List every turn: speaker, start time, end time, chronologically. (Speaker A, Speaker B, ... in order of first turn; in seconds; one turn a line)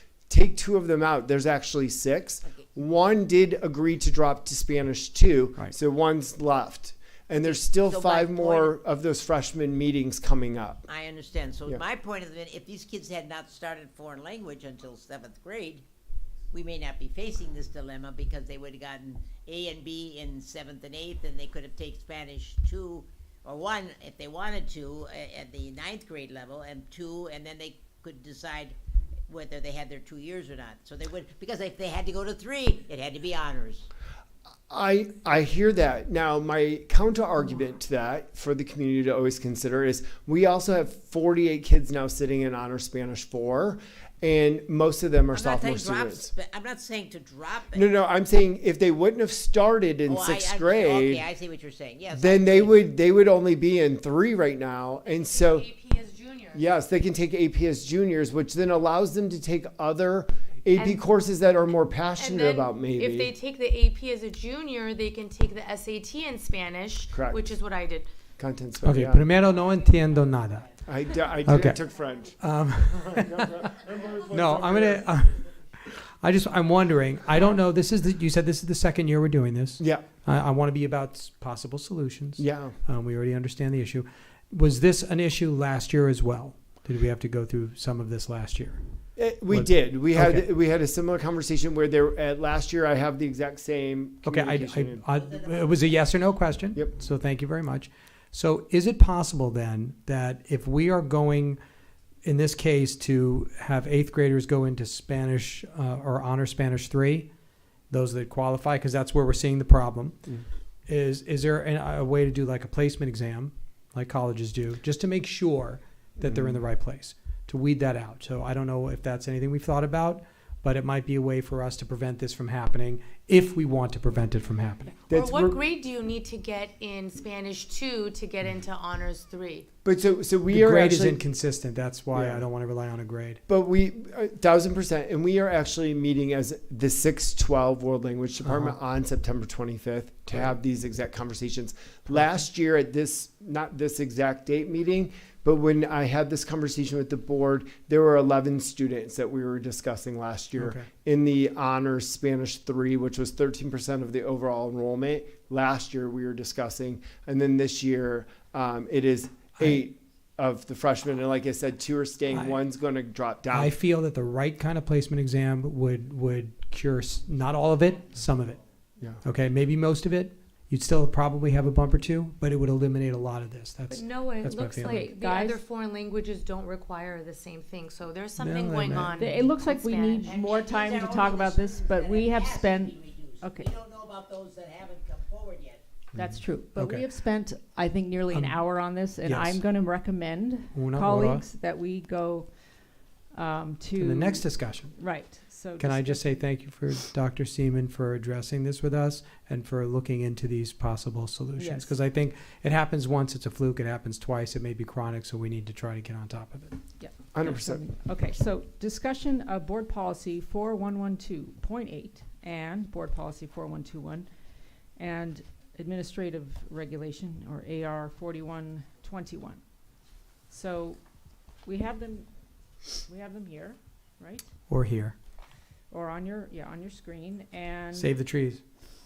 Speaker A: 0.3-10.9
Speaker B: 7.4-8.8
Speaker B: 10.9-15.8
Speaker B: 16.5-28.8
Speaker B: 29.3-33.9
Speaker A: 34.7-46.3
Speaker B: 45.3-47.9
Speaker A: 47.7-51.3
Speaker B: 50.1-52.8
Speaker A: 52.1-55.7
Speaker C: 55.0-56.6
Speaker A: 56.5-63.3
Speaker C: 60.8-61.0
Speaker C: 62.2-68.1
Speaker A: 67.1-67.4
Speaker A: 68.4-69.2
Speaker D: 68.8-70.7
Speaker B: 69.2-71.7
Speaker A: 70.8-72.3
Speaker D: 71.5-71.8
Speaker D: 72.4-88.8
Speaker A: 72.9-75.0
Speaker A: 79.8-80.1
Speaker A: 82.4-82.8
Speaker A: 89.2-95.0
Speaker D: 89.5-90.5
Speaker D: 94.3-101.6
Speaker B: 95.1-96.1
Speaker D: 102.2-107.3
Speaker D: 107.9-110.3
Speaker D: 110.9-124.9
Speaker A: 116.2-116.6
Speaker A: 125.1-125.6
Speaker C: 125.1-129.7
Speaker A: 129.8-131.2
Speaker D: 130.5-133.4
Speaker A: 132.1-132.5
Speaker A: 133.5-163.7
Speaker D: 150.6-150.9
Speaker D: 163.5-168.6
Speaker D: 169.2-175.1
Speaker C: 173.9-180.6
Speaker E: 174.9-175.6
Speaker D: 178.4-179.2
Speaker E: 179.1-183.7
Speaker B: 180.2-185.8
Speaker D: 186.2-187.1
Speaker E: 186.2-192.5
Speaker D: 188.3-188.6
Speaker D: 189.2-189.6
Speaker D: 190.7-191.5
Speaker E: 193.3-196.4
Speaker D: 194.0-195.0
Speaker D: 195.8-206.8
Speaker E: 201.6-202.0
Speaker E: 207.0-214.3
Speaker A: 207.3-207.8
Speaker E: 215.0-219.6
Speaker E: 220.5-221.0
Speaker E: 221.6-222.3
Speaker E: 222.9-224.5
Speaker D: 224.7-225.2
Speaker E: 225.9-228.2
Speaker D: 227.9-228.6